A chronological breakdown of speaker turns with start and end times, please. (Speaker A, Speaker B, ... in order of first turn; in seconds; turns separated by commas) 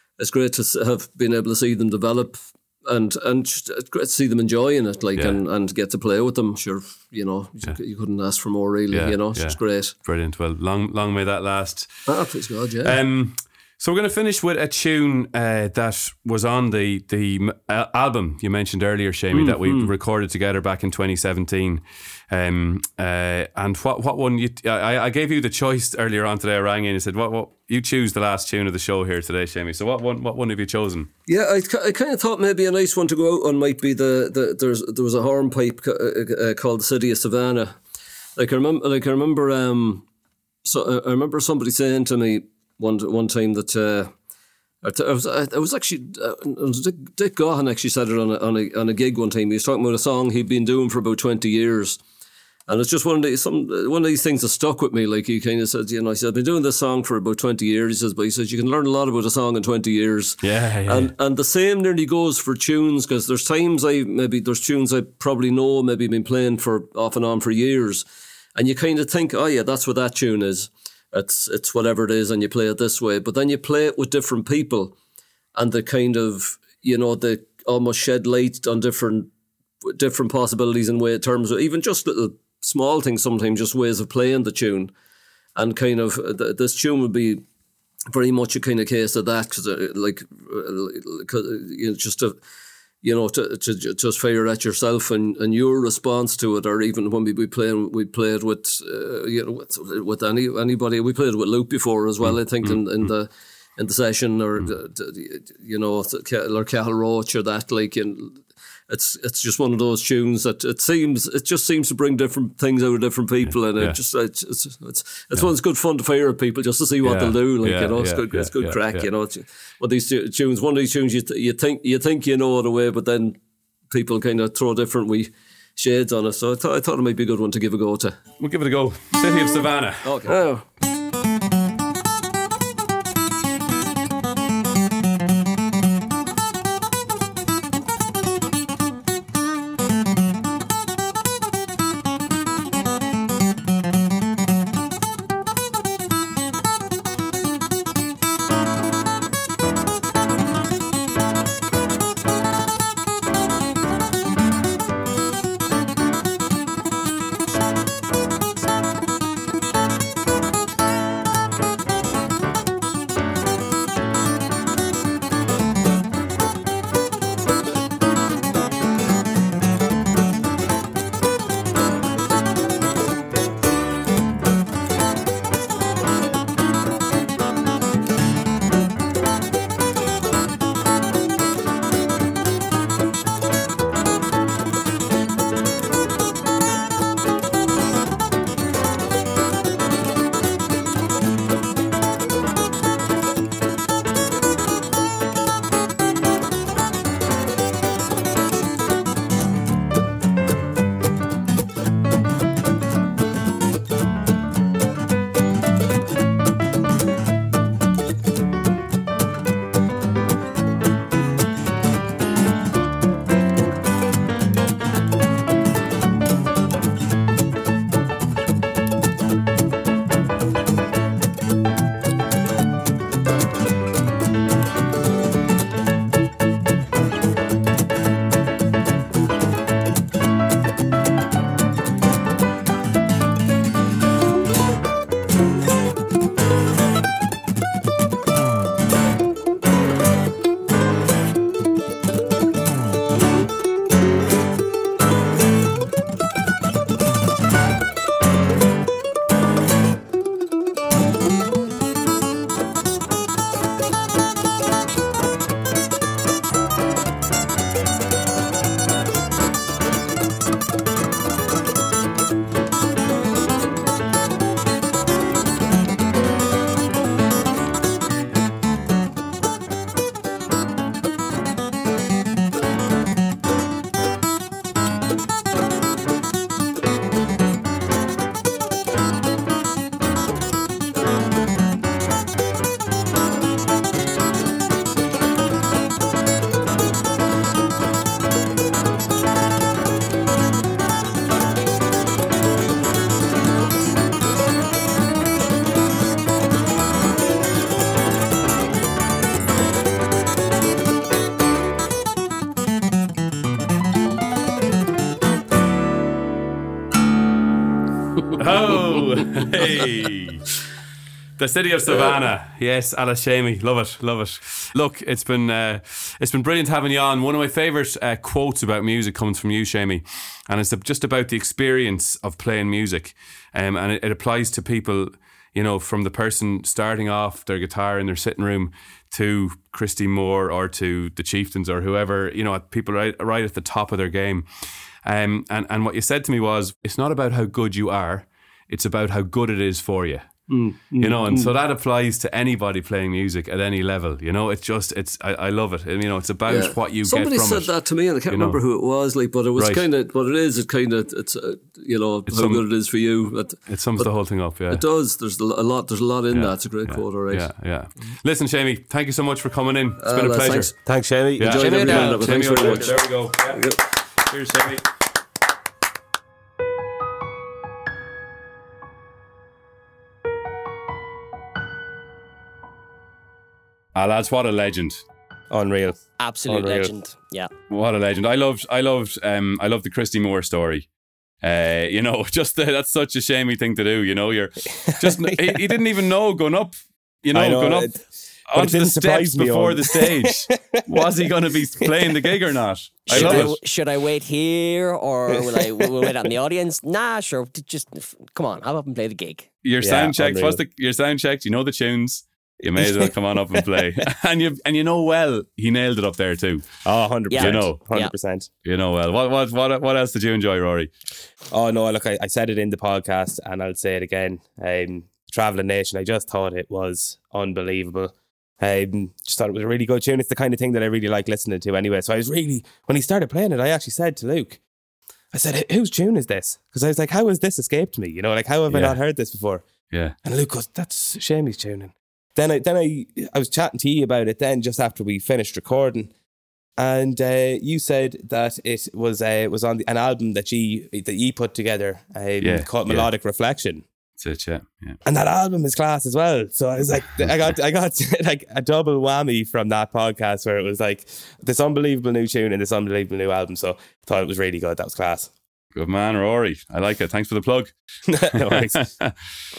Speaker A: 0.2-9.9, Speaker B: 8.9-12.1, Speaker A: 12.1-13.0, Speaker B: 12.8-31.1, Speaker A: 19.3-19.9, Speaker A: 31.3-37.8, Speaker A: 38.4-40.0, Speaker A: 40.6-44.1, Speaker A: 44.8-52.0, Speaker A: 52.7-75.0, Speaker B: 60.4-61.1, Speaker A: 75.5-79.3, Speaker A: 79.8-84.9, Speaker A: 85.5-87.4, Speaker A: 88.1-92.3, Speaker A: 93.0-123.4, Speaker B: 102.2-103.1, Speaker B: 113.5-114.0, Speaker B: 117.0-119.1, Speaker A: 123.9-128.2, Speaker B: 128.4-130.3, Speaker A: 130.0-130.6, Speaker B: 308.3-310.5, Speaker B: 311.4-340.5, Speaker A: 340.5-341.5, Speaker B: 341.0-347.7, Speaker A: 346.5-357.5, Speaker B: 348.3-348.6, Speaker B: 349.6-349.9, Speaker B: 352.3-352.6, Speaker B: 353.7-354.8, Speaker B: 356.3-360.7, Speaker A: 360.0-363.8, Speaker C: 360.9-361.9, Speaker B: 361.4-364.8, Speaker D: 361.8-362.3, Speaker B: 373.9-375.0, Speaker C: 375.5-376.9, Speaker D: 376.2-377.5, Speaker B: 377.7-380.9, Speaker B: 381.4-387.9, Speaker C: 385.0-385.6, Speaker C: 387.3-392.3, Speaker B: 388.5-393.6, Speaker D: 393.1-399.5, Speaker C: 393.1-393.5, Speaker C: 395.4-396.1, Speaker B: 399.6-406.8, Speaker C: 399.8-400.6, Speaker C: 402.8-403.8, Speaker C: 406.8-408.5, Speaker D: 407.3-408.1, Speaker B: 407.4-407.8, Speaker B: 408.6-410.9, Speaker C: 411.5-424.6, Speaker C: 425.3-429.7, Speaker B: 428.7-429.0, Speaker B: 429.9-430.1, Speaker C: 430.2-436.1, Speaker C: 436.8-443.8, Speaker B: 442.4-443.1, Speaker B: 444.2-445.0, Speaker C: 445.0-455.3, Speaker B: 455.7-457.7, Speaker C: 458.1-458.9, Speaker B: 458.4-459.1